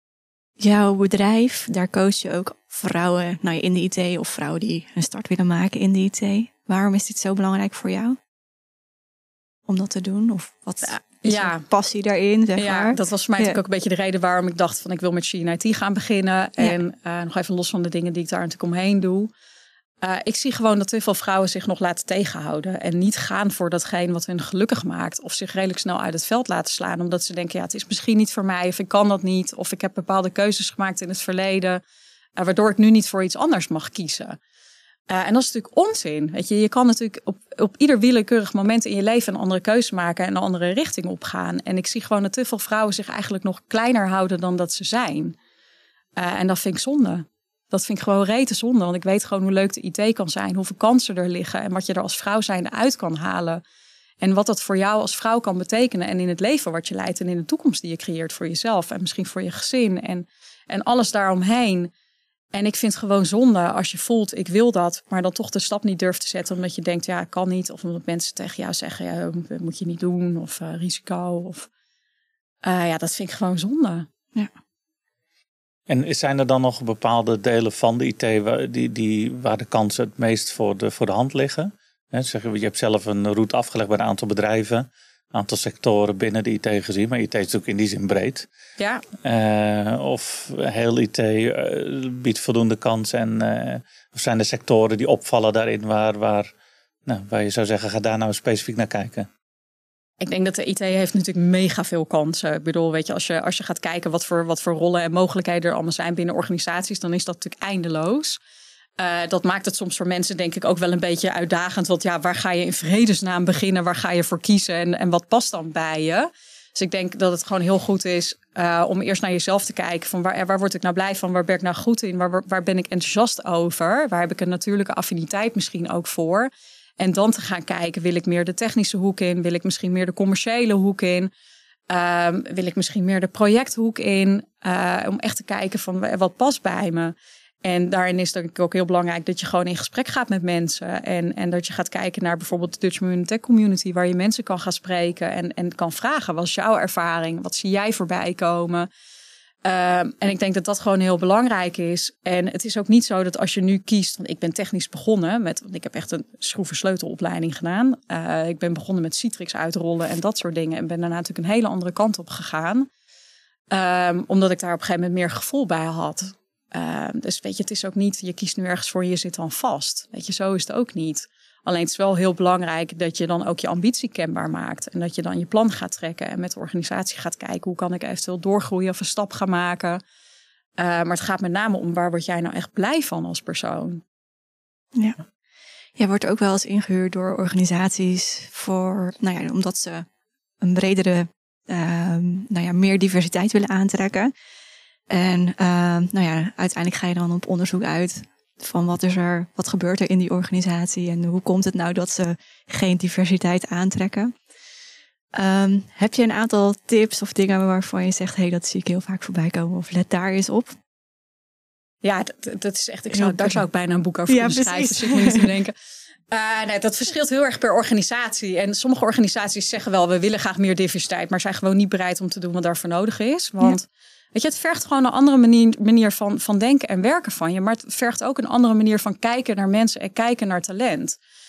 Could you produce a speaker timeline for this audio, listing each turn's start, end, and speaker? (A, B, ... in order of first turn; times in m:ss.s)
0:00.6-0:08.2 A
0:09.7-0:13.6 A
0:10.8-0:11.6 B
0:12.6-0:19.3 B
0:20.0-0:31.8 B
0:32.4-0:34.4 B
0:35.1-0:45.4 B
0:46.2-0:53.6 B
0:54.2-1:01.9 B
1:02.5-1:11.7 B
1:12.6-1:14.1 B
1:15.9-1:28.4 C
1:28.8-1:29.0 B
1:29.2-1:36.5 C
1:37.0-1:39.3 C
1:40.2-1:48.4 B
1:49.0-2:11.3 B
2:11.9-2:28.9 B
2:29.6-2:42.9 B
2:43.7-3:00.0 B
3:00.8-3:04.0 B
3:06.0-3:10.0 A
3:10.6-3:14.3 A
3:15.1-3:24.3 A
3:25.3-3:30.7 A
3:32.0-3:35.7 B
3:33.1-3:33.6 A
3:34.3-3:35.5 A
3:36.3-3:51.2 B